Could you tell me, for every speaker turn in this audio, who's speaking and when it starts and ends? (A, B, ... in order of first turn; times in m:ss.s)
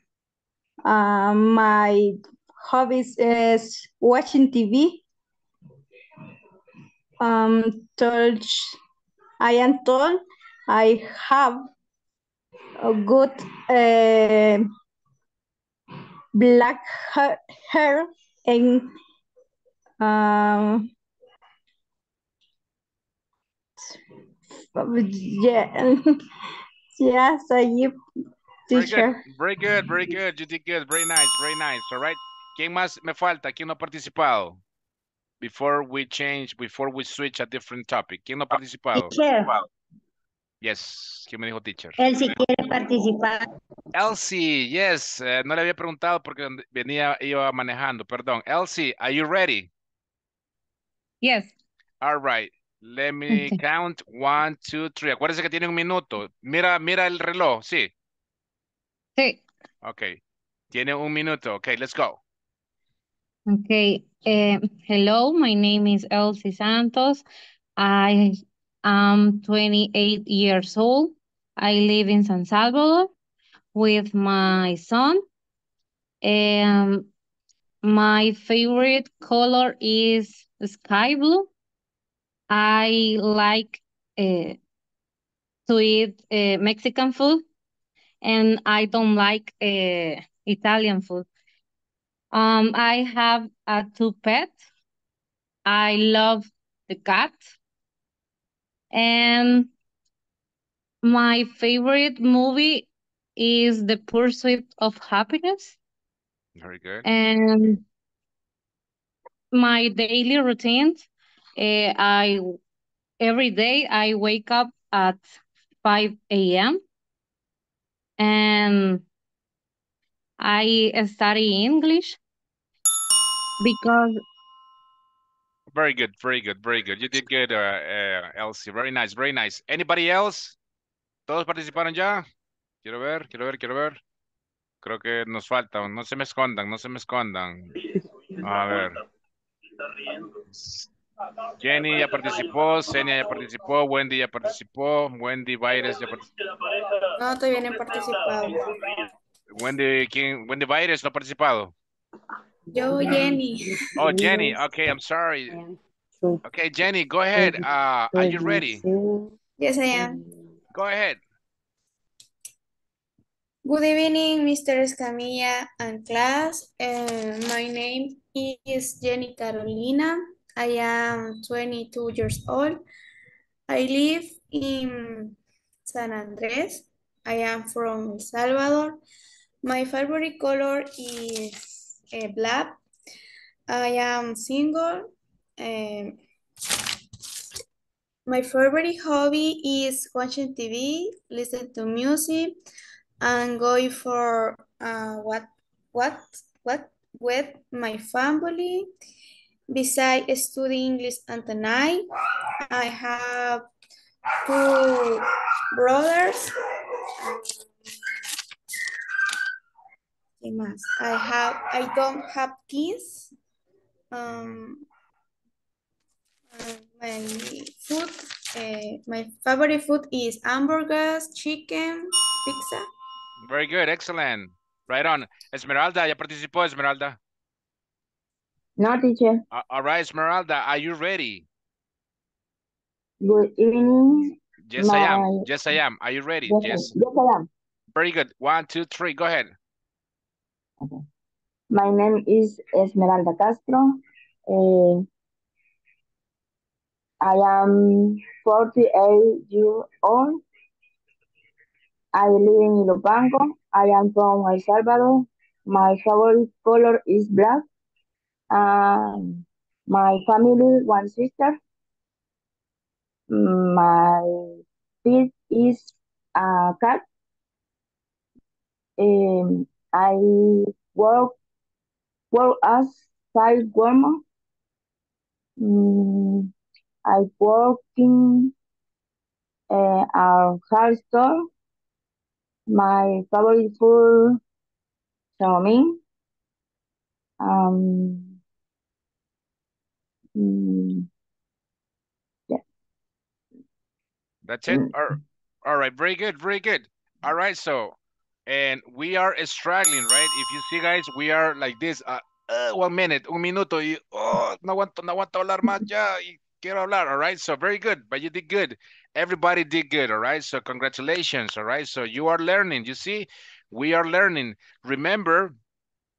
0:00.8-0:05.0 A
0:07.2-0:08.8 A
0:09.4-0:11.7 A
0:12.8-0:14.7 A
0:16.3-0:18.9 A
0:20.0-0:20.9 A
0:24.7-0:26.0 A
0:26.9-0:28.0 A
0:28.7-0:29.2 A
0:28.7-0:34.6 B
0:35.4-0:39.1 B
0:38.9-0:39.5 C
0:40.6-0:42.0 B
0:42.0-0:43.4 C
0:43.9-0:49.7 B
0:51.2-0:51.5 D
0:52.0-0:57.9 B
0:53.3-0:53.6 D
0:59.2-0:59.4 D
0:59.8-1:00.2 B
1:00.7-1:02.2 B
1:03.5-1:07.2 D
1:07.8-1:13.1 D
1:13.7-1:15.2 D
1:16.2-1:17.1 D
1:17.8-1:21.5 D
1:22.5-1:24.6 D
1:25.7-1:27.4 D
1:28.2-1:31.3 D
1:32.3-1:34.6 D
1:35.6-1:37.5 D
1:38.9-1:39.7 D
1:41.0-1:45.8 D
1:46.6-1:47.0 B
1:47.0-1:47.8 D
1:49.5-1:51.0 D
1:51.6-1:52.5 D
1:53.2-1:56.8 D
1:58.2-1:59.0 D
2:00.4-2:02.2 D
2:05.7-2:10.6 B
2:11.3-2:12.2 B
2:12.8-2:14.0 B
2:14.8-2:17.8 B
2:18.4-2:19.0 B
2:20.5-2:20.9 B
2:21.6-2:26.3 B
2:27.2-2:28.7 E
2:29.5-2:31.7 B
2:32.7-2:33.7 E
2:34.0-2:35.6 B
2:34.0-2:34.5 F
2:36.4-2:38.8 B
2:38.3-2:38.6 F
2:39.6-2:40.2 E
2:40.7-2:41.2 B
2:43.6-2:52.8 E
2:53.7-2:59.0 E
2:59.6-3:02.8 E
3:03.7-3:06.2 E
3:08.3-3:12.6 E
3:13.2-3:18.9 E
3:19.7-3:22.1 E
3:22.7-3:23.7 E
3:24.4-3:25.2 E
3:25.7-3:26.5 E
3:27.2-3:27.7 E
3:30.4-3:33.3 E
3:34.1-3:34.8 E
3:34.3-3:34.6 B
3:36.5-3:42.9 E
3:43.4-3:47.2 B
3:48.8-3:49.4 F
3:49.5-3:51.4 B
3:53.2-3:55.5 F
3:54.6-3:56.9 B
3:56.5-3:57.5 F
3:57.9-3:59.5 B
4:01.7-4:05.0 F
4:07.2-4:10.4 F
4:12.1-4:17.6 F
4:18.5-4:21.6 F
4:23.3-4:27.0 F
4:29.0-4:31.4 F
4:32.3-4:34.2 F
4:35.6-4:36.5 F
4:37.0-4:38.5 F
4:39.7-4:41.5 F
4:42.7-4:44.4 F
4:45.4-4:46.0 F
4:47.4-4:48.4 F
4:50.3-4:51.1 F
4:54.4-4:58.0 B
4:58.5-5:15.5 B